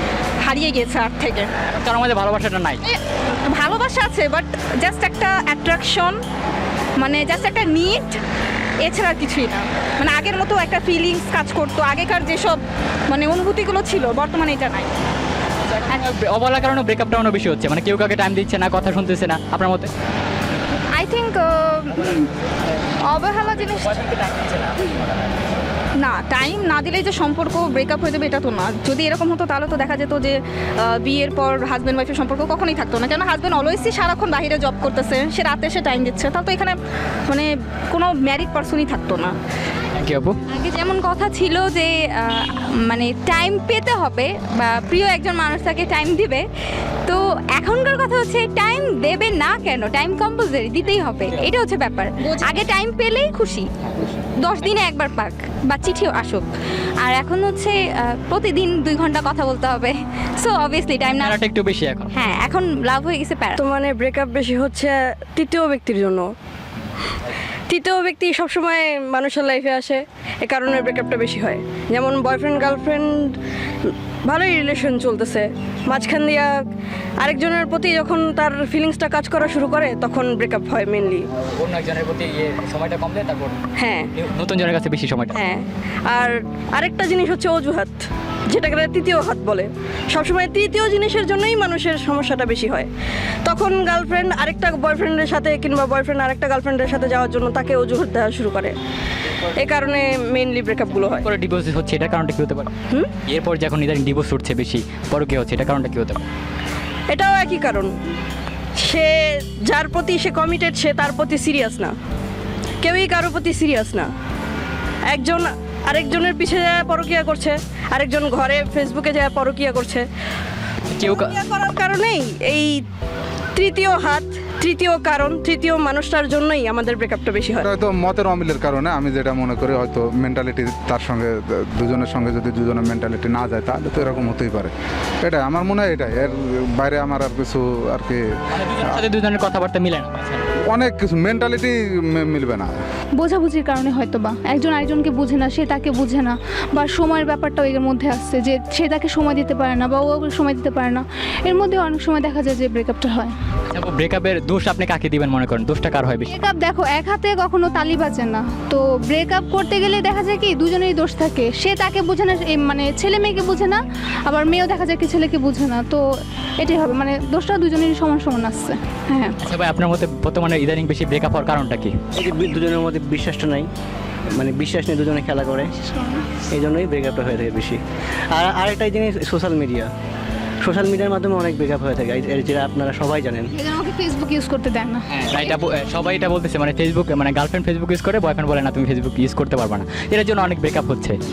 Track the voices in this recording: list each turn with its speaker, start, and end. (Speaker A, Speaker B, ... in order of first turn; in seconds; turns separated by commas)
Speaker A: 0.4-1.5, Speaker B: 1.7-2.8, Speaker A: 3.5-6.2, Speaker A: 7.0-8.2, Speaker A: 8.8-14.9, Speaker B: 15.7-19.9, Speaker A: 20.9-22.3, Speaker A: 23.1-24.0, Speaker B: 23.6-25.1, Speaker A: 26.0-36.8, Speaker A: 37.3-39.3, Speaker B: 40.0-40.4, Speaker C: 40.5-46.2, Speaker A: 45.9-46.4, Speaker C: 47.1-52.1, Speaker A: 51.7-53.6, Speaker C: 52.9-53.6, Speaker A: 54.4-56.5, Speaker C: 57.0-61.4, Speaker B: 61.2-62.1, Speaker C: 62.1-63.6, Speaker D: 63.6-66.3, Speaker D: 67.7-73.3, Speaker D: 74.3-76.5, Speaker D: 77.2-81.2, Speaker B: 81.4-83.6, Speaker D: 83.8-84.1, Speaker B: 84.1-85.4, Speaker D: 85.3-88.0, Speaker D: 88.5-92.9, Speaker D: 93.5-98.7, Speaker D: 99.6-101.2, Speaker B: 101.2-102.7, Speaker B: 103.3-106.2, Speaker D: 107.1-107.9, Speaker D: 108.8-111.9, Speaker D: 112.8-114.1, Speaker D: 115.1-120.1, Speaker B: 120.9-121.3, Speaker D: 121.0-122.8, Speaker D: 123.6-127.7, Speaker E: 127.6-138.2, Speaker B: 138.5-140.4, Speaker E: 140.7-142.8, Speaker F: 143.2-153.3, Speaker B: 153.7-156.3, Speaker F: 156.3-166.0, Speaker F: 166.6-169.3, Speaker B: 169.4-171.9, Speaker G: 172.2-173.7, Speaker G: 174.4-175.7, Speaker F: 175.9-176.2, Speaker G: 176.5-177.8, Speaker G: 178.3-179.9, Speaker G: 180.6-183.5, Speaker F: 183.6-185.6, Speaker B: 185.1-191.2